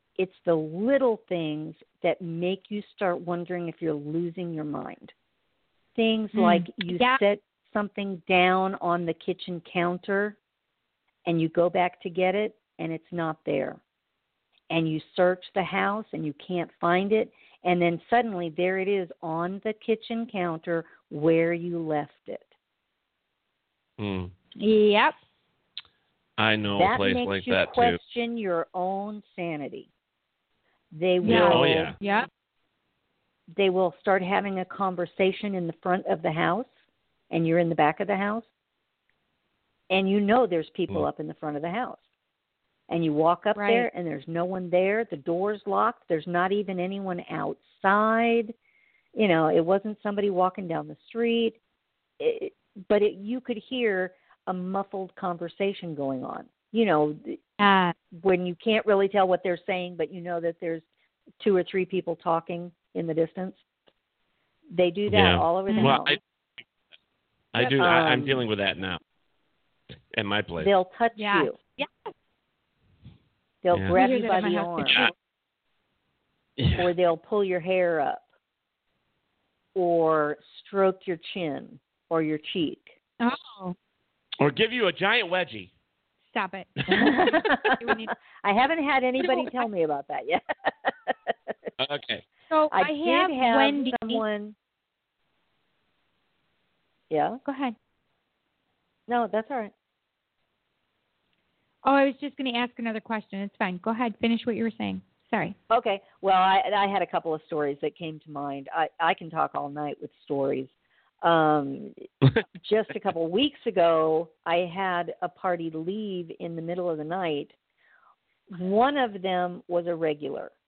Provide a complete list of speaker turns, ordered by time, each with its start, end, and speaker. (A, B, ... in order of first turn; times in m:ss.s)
0:00.2-0:05.1 A
0:05.9-0:10.4 A
0:06.3-0:07.2 B
0:11.2-0:13.8 A
0:14.7-0:22.5 A
0:24.0-0:24.3 C
0:24.6-0:25.2 B
0:26.4-0:28.0 C
0:26.7-0:29.9 A
0:30.9-0:31.9 A
0:31.2-0:32.3 B
0:31.2-0:32.0 C
0:33.5-0:36.7 A
0:37.3-0:38.4 A
0:39.9-0:42.0 A
0:42.9-0:48.5 A
0:43.5-0:43.9 B
0:49.1-0:51.6 A
0:52.2-0:57.4 A
0:57.6-0:57.9 B
0:58.1-1:00.8 A
1:01.4-1:03.6 A
1:04.7-1:06.2 A
1:05.1-1:06.2 C
1:05.7-1:06.0 B
1:07.5-1:09.0 C
1:07.6-1:08.4 A
1:10.1-1:10.7 C
1:10.6-1:11.6 A
1:11.2-1:12.1 B
1:13.6-1:15.1 A
1:13.9-1:15.1 B
1:16.6-1:16.9 C
1:16.7-1:18.3 A
1:19.7-1:22.9 A
1:23.2-1:23.8 B
1:24.4-1:25.7 C
1:26.3-1:28.1 B
1:26.9-1:31.5 A
1:29.2-1:29.6 B
1:31.8-1:32.2 C
1:32.5-1:34.2 B
1:32.7-1:34.6 A
1:37.1-1:37.4 A
1:37.4-1:37.7 B
1:39.1-1:39.7 A
1:41.8-1:45.6 B
1:45.7-1:50.7 A
1:51.2-1:51.9 A
1:52.6-1:57.5 A
1:58.5-2:00.5 A